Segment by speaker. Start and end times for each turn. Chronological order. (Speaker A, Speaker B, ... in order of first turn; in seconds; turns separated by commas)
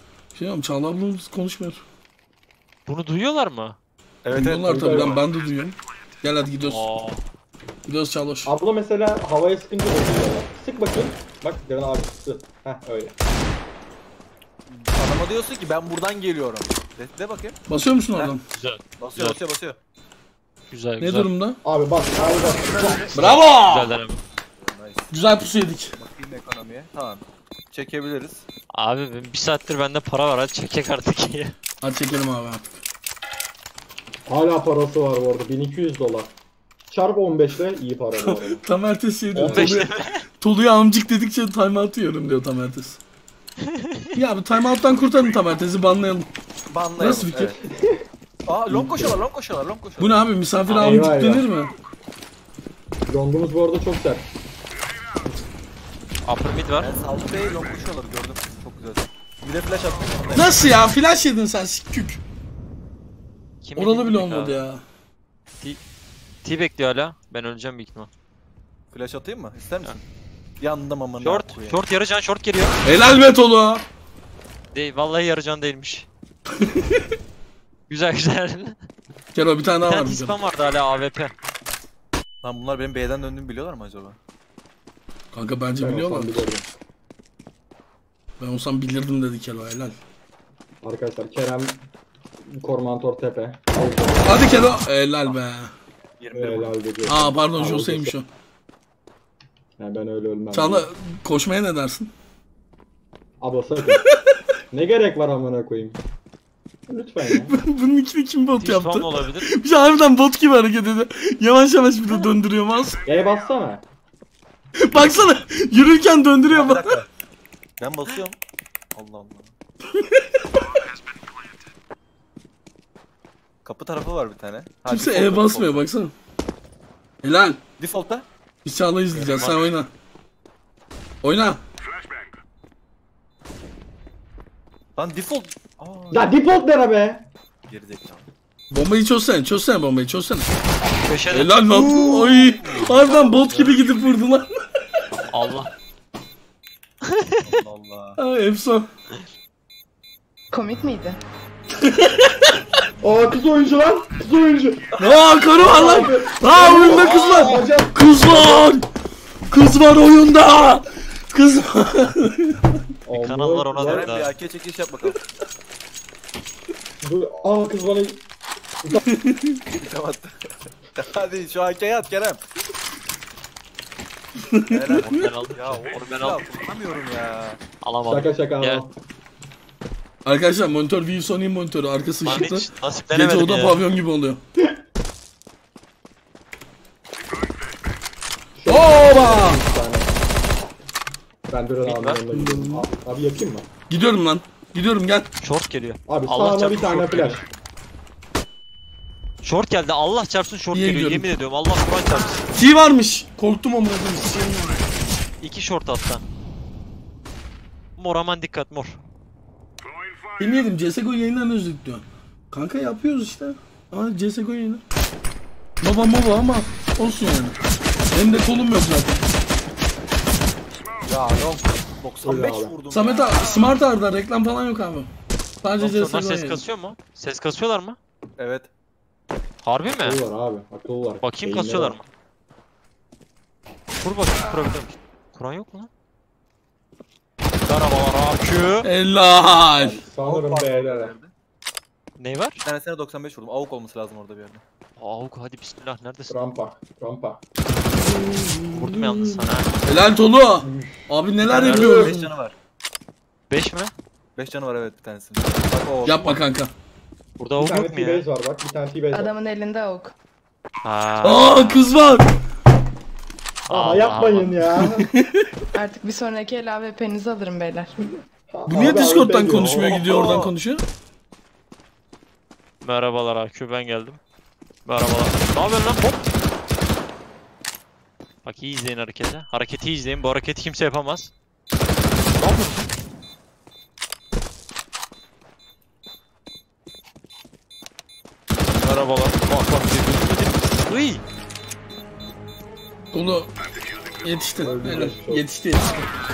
Speaker A: 0.3-1.8, Speaker B: 2.9-3.8, Speaker C: 4.2-5.2, Speaker A: 4.3-6.8, Speaker D: 4.7-5.2, Speaker B: 6.7-7.2, Speaker A: 7.9-8.5, Speaker D: 8.4-13.2, Speaker C: 14.7-17.6, Speaker A: 17.7-18.4, Speaker B: 18.5-19.4, Speaker C: 19.0-19.8, Speaker B: 20.7-21.3, Speaker A: 21.0-21.6, Speaker D: 21.6-23.4, Speaker A: 23.1-24.0, Speaker B: 23.2-24.2, Speaker C: 24.6-25.1, Speaker A: 25.1-25.9, Speaker C: 26.0-28.4, Speaker B: 28.7-31.6, Speaker A: 31.8-32.8, Speaker D: 34.3-36.3, Speaker D: 36.9-38.6, Speaker A: 38.2-43.0, Speaker D: 39.3-39.9, Speaker B: 39.4-40.2, Speaker A: 44.1-46.3, Speaker C: 46.7-47.6, Speaker A: 47.0-47.5, Speaker D: 47.7-48.0, Speaker C: 48.5-50.2, Speaker D: 48.7-49.2, Speaker A: 50.0-51.7, Speaker B: 50.7-51.0, Speaker D: 50.8-51.5, Speaker D: 53.1-54.3, Speaker B: 56.3-56.9, Speaker C: 56.8-60.6, Speaker A: 60.3-62.2, Speaker B: 63.6-64.7, Speaker A: 63.8-64.8, Speaker B: 66.4-68.1, Speaker C: 68.9-70.0, Speaker C: 70.6-71.8, Speaker B: 71.2-72.8, Speaker A: 72.8-73.8, Speaker B: 74.7-76.1, Speaker A: 76.6-77.0, Speaker B: 77.9-78.8, Speaker A: 79.3-80.4, Speaker B: 79.8-81.3, Speaker C: 82.4-84.2, Speaker A: 85.3-86.5, Speaker D: 85.8-86.7, Speaker A: 88.4-90.0, Speaker D: 90.8-91.8, Speaker D: 92.4-94.6, Speaker A: 94.2-95.7, Speaker C: 96.2-96.8, Speaker D: 96.3-98.1, Speaker A: 97.1-98.3, Speaker D: 99.8-100.9, Speaker A: 100.5-102.1, Speaker D: 103.4-104.0, Speaker A: 103.8-104.4, Speaker D: 104.7-106.0, Speaker D: 106.9-107.6, Speaker A: 107.2-113.0, Speaker B: 108.6-109.5, Speaker D: 113.1-113.8, Speaker A: 114.8-117.0, Speaker C: 116.5-117.1, Speaker C: 117.8-118.4, Speaker C: 119.0-119.5, Speaker A: 119.9-120.7, Speaker C: 123.7-125.8, Speaker A: 124.9-126.1, Speaker A: 127.2-127.6, Speaker C: 127.8-128.2, Speaker A: 128.7-129.9, Speaker B: 129.1-129.6, Speaker A: 131.2-131.6, Speaker C: 135.0-136.4, Speaker D: 136.1-137.3, Speaker C: 137.7-138.3, Speaker A: 138.7-140.5, Speaker B: 140.9-141.6, Speaker A: 141.3-144.5, Speaker C: 142.1-143.9, Speaker B: 145.3-145.7, Speaker C: 147.4-148.2, Speaker A: 148.2-148.9, Speaker E: 150.5-151.2, Speaker A: 151.8-152.6, Speaker D: 153.0-154.9, Speaker A: 155.0-158.9, Speaker D: 155.5-158.7, Speaker B: 156.8-157.6, Speaker A: 159.5-162.8, Speaker D: 163.1-164.1, Speaker B: 163.1-164.3, Speaker C: 163.8-165.2, Speaker D: 167.0-168.2, Speaker A: 169.1-169.6, Speaker C: 169.8-172.4, Speaker A: 174.4-175.3, Speaker C: 174.7-177.6, Speaker B: 175.0-176.4, Speaker B: 177.8-178.8, Speaker D: 178.1-178.9, Speaker A: 180.2-184.4, Speaker B: 182.2-183.8, Speaker D: 188.6-190.1, Speaker A: 188.7-189.6, Speaker D: 191.5-193.7, Speaker B: 191.8-192.2, Speaker A: 192.3-192.8, Speaker A: 193.9-195.3, Speaker B: 195.4-197.4, Speaker D: 196.1-197.4, Speaker B: 199.4-202.5, Speaker A: 200.7-201.3, Speaker A: 202.6-204.8, Speaker B: 205.4-206.2, Speaker B: 208.0-209.0, Speaker A: 210.4-214.8, Speaker A: 215.8-217.6, Speaker A: 218.1-219.2, Speaker C: 221.0-223.5, Speaker D: 222.2-222.7, Speaker A: 222.9-225.1, Speaker A: 225.6-226.6, Speaker B: 225.8-228.0, Speaker C: 228.4-228.7, Speaker B: 229.6-230.2, Speaker D: 230.0-232.0, Speaker B: 231.2-232.1, Speaker B: 234.0-235.9, Speaker B: 237.7-238.9, Speaker A: 238.8-240.0, Speaker D: 239.8-241.1, Speaker C: 240.2-241.3, Speaker B: 242.2-242.6, Speaker C: 242.6-244.6, Speaker B: 245.0-246.3, Speaker D: 246.3-247.4, Speaker A: 248.0-252.3, Speaker B: 248.7-249.7, Speaker D: 250.6-252.2, Speaker B: 251.5-251.9, Speaker C: 251.7-252.6, Speaker B: 253.5-253.9, Speaker C: 254.4-256.4, Speaker A: 256.1-256.7, Speaker B: 257.4-258.3, Speaker D: 257.6-259.3, Speaker E: 259.1-260.1, Speaker B: 260.8-261.9, Speaker A: 261.2-262.3, Speaker B: 263.7-264.6, Speaker D: 263.7-265.1, Speaker A: 264.8-265.5, Speaker E: 265.8-267.9, Speaker D: 268.5-270.0, Speaker A: 268.7-270.8, Speaker C: 269.6-270.6, Speaker B: 272.8-274.2, Speaker B: 274.9-276.3, Speaker B: 278.4-281.3, Speaker B: 282.4-282.9, Speaker B: 288.7-291.2, Speaker A: 293.1-293.5, Speaker A: 294.2-296.1, Speaker D: 294.6-295.4